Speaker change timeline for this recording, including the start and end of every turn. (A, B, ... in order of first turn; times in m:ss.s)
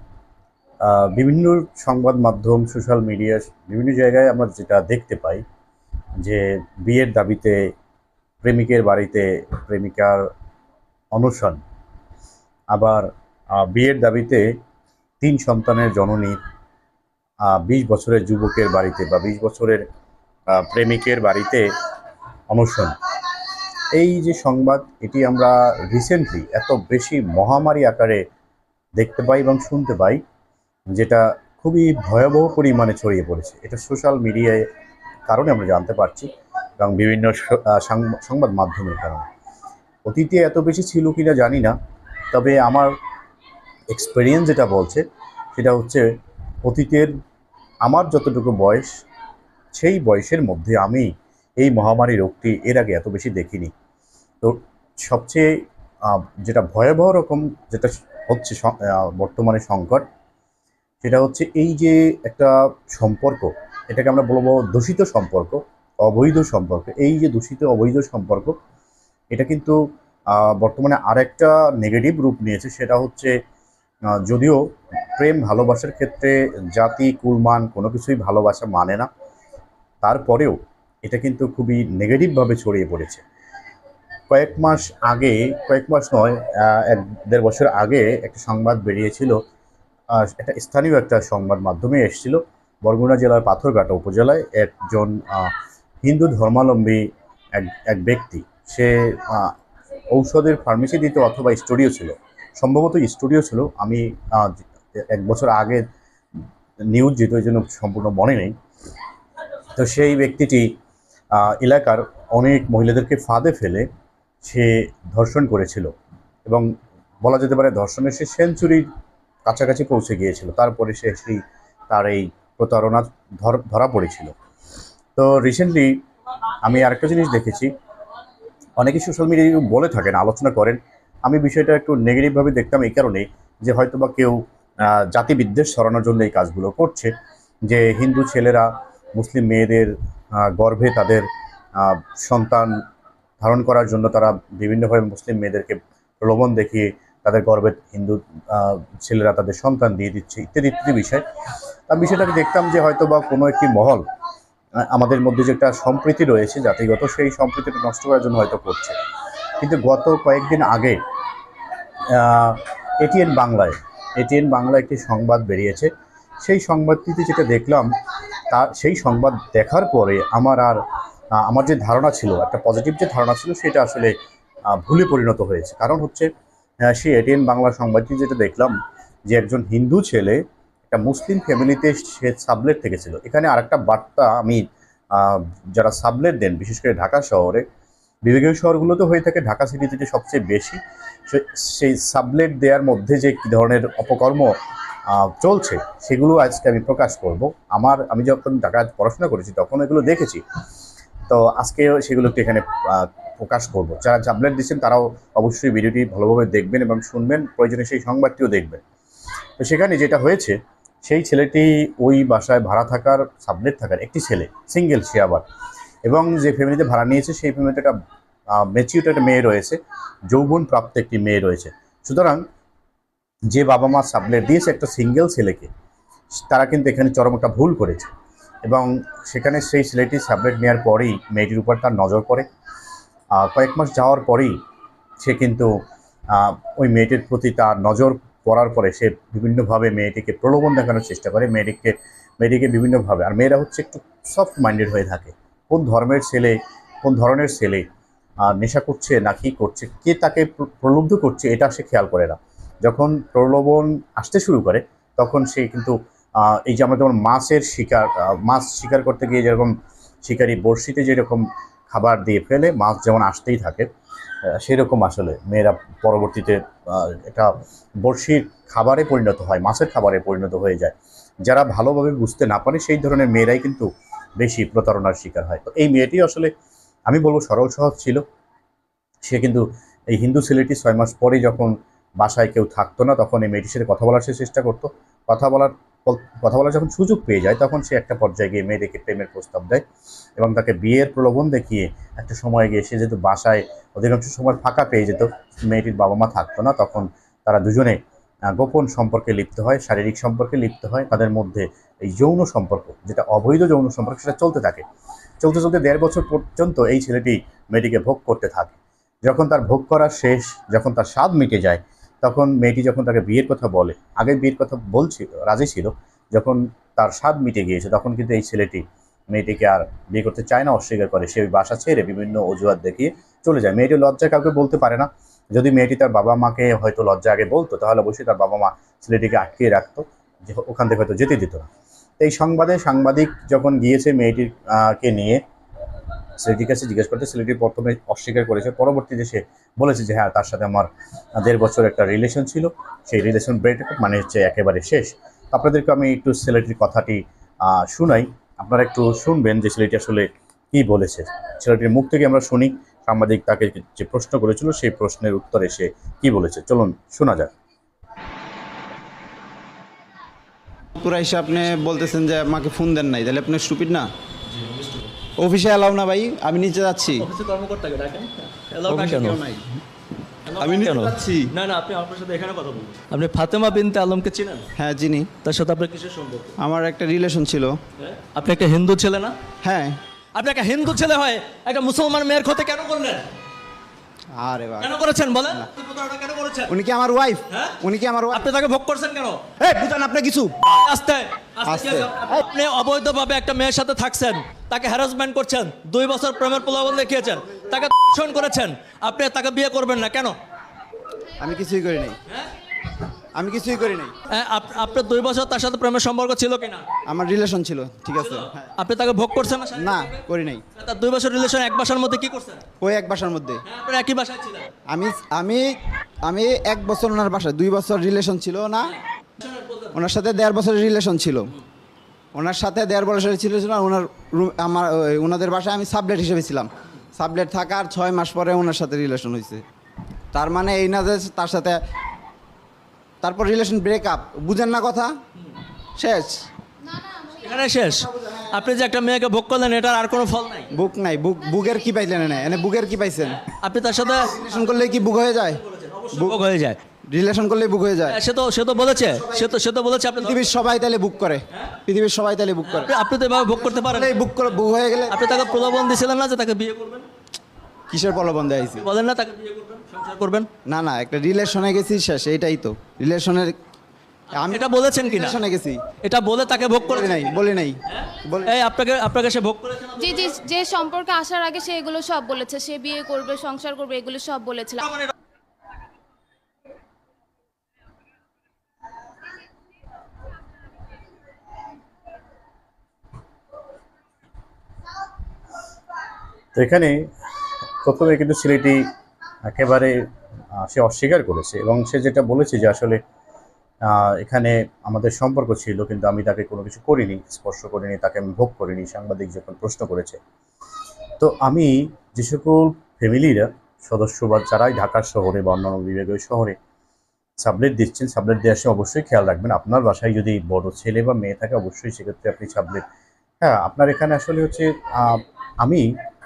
0:00.8-0:05.4 A
0:06.2-0:07.6 A
0:08.4-0:10.3 A
0:11.1-0:11.6 A
0:12.7-0:14.5 A
0:15.2-0:16.4 A
0:17.5-0:19.8 A
0:20.5-0:21.7 A
0:22.5-0:23.0 A
0:23.9-0:28.2 A
0:29.0-0:30.2 A
0:30.9-0:34.6 A
0:35.3-0:36.3 A
0:36.8-0:39.2 A
0:40.1-0:41.7 A
0:42.3-0:42.9 A
0:43.9-0:45.0 A
0:45.6-0:46.0 A
0:46.6-0:47.1 A
0:47.8-0:48.9 A
0:49.8-0:53.7 A
0:54.4-0:55.5 A
0:56.1-1:00.0 A
1:01.0-1:08.6 A
1:09.3-1:09.8 A
1:10.4-1:13.3 A
1:14.3-1:14.6 A
1:15.2-1:19.1 A
1:20.0-1:23.2 A
1:24.3-1:29.4 A
1:30.1-1:35.5 A
1:36.0-1:37.0 A
1:37.6-1:39.5 A
1:40.1-1:45.8 A
1:46.9-1:48.5 A
1:49.8-1:50.7 A
1:51.4-1:53.8 A
1:54.4-1:55.9 A
1:57.2-1:58.9 A
1:59.5-2:04.3 A
2:05.2-2:05.9 A
2:06.6-2:07.7 A
2:08.8-2:17.1 A
2:17.7-2:21.3 A
2:21.8-2:22.7 A
2:23.4-2:31.2 A
2:31.9-2:34.0 A
2:34.8-2:39.0 A
2:39.6-2:41.0 A
2:42.1-2:45.9 A
2:46.4-2:47.9 A
2:48.5-2:50.8 A
2:51.4-2:54.1 A
2:54.8-2:56.3 A
2:56.8-2:58.7 A
2:59.3-3:04.6 A
3:05.2-3:07.6 A
3:08.2-3:14.5 A
3:15.1-3:20.4 A
3:21.3-3:28.8 A
3:29.6-3:35.4 A
3:36.0-3:37.9 A
3:38.6-3:39.8 A
3:40.3-3:42.4 A
3:43.5-3:45.7 A
3:46.4-3:48.1 A
3:48.6-3:52.5 A
3:53.4-3:54.5 A
3:55.2-3:55.7 A
3:56.3-4:07.8 A
4:08.5-4:19.7 A
4:20.2-4:23.9 A
4:24.5-4:31.0 A
4:31.5-4:33.9 A
4:34.4-4:36.5 A
4:37.1-4:38.2 A
4:39.2-4:49.8 A
4:50.4-4:58.0 A
4:58.6-5:04.8 A
5:05.4-5:31.7 A
5:32.2-5:35.4 A
5:36.4-5:57.5 A
6:01.0-6:04.1 B
6:04.5-6:05.1 C
6:05.4-6:07.3 B
6:07.2-6:09.4 C
6:08.9-6:09.7 B
6:10.5-6:14.7 C
6:10.6-6:11.5 B
6:14.8-6:15.3 B
6:15.4-6:16.6 C
6:16.6-6:17.8 B
6:18.0-6:19.3 C
6:19.6-6:20.0 B
6:20.4-6:23.3 C
6:24.4-6:24.9 B
6:24.8-6:26.7 C
6:26.7-6:28.5 B
6:27.5-6:27.8 C
6:28.3-6:29.4 C
6:29.6-6:30.6 B
6:30.7-6:40.4 C
6:31.6-6:32.4 B
6:41.4-6:42.2 B
6:43.4-6:44.1 B
6:44.3-6:46.9 C
6:47.1-6:48.7 B
6:48.2-6:50.2 C
6:49.8-6:50.6 B
6:50.8-6:52.6 C
6:52.8-6:53.6 B
6:53.7-6:54.7 C
6:54.9-6:55.7 B
6:56.2-6:59.0 B
6:58.9-7:00.0 C
6:59.9-7:01.6 B
7:02.3-7:09.6 B
7:10.3-7:11.8 B
7:13.2-7:15.1 B
7:16.0-7:16.4 B
7:17.2-7:20.7 C
7:18.0-7:18.6 B
7:20.7-7:23.4 B
7:23.2-7:24.9 C
7:24.2-7:26.4 B
7:25.5-7:26.8 C
7:27.1-7:28.2 B
7:28.1-7:30.4 C
7:29.0-7:29.6 B
7:30.2-7:32.9 B
7:31.5-7:31.8 C
7:32.6-7:34.2 C
7:33.7-7:35.8 B
7:35.1-7:37.1 C
7:37.9-7:38.9 B
7:38.7-7:40.5 C
7:40.7-7:43.5 B
7:44.3-7:45.8 B
7:44.4-7:45.4 C
7:46.0-7:47.4 C
7:46.8-7:48.6 B
7:47.9-7:50.4 C
7:50.0-7:54.9 D
8:06.5-8:07.1 A
8:07.8-8:08.8 A
8:09.5-8:10.0 A
8:10.6-8:13.0 A
8:13.9-8:20.2 A
8:21.2-8:26.6 A
8:27.4-8:32.8 A
8:33.4-8:35.9 A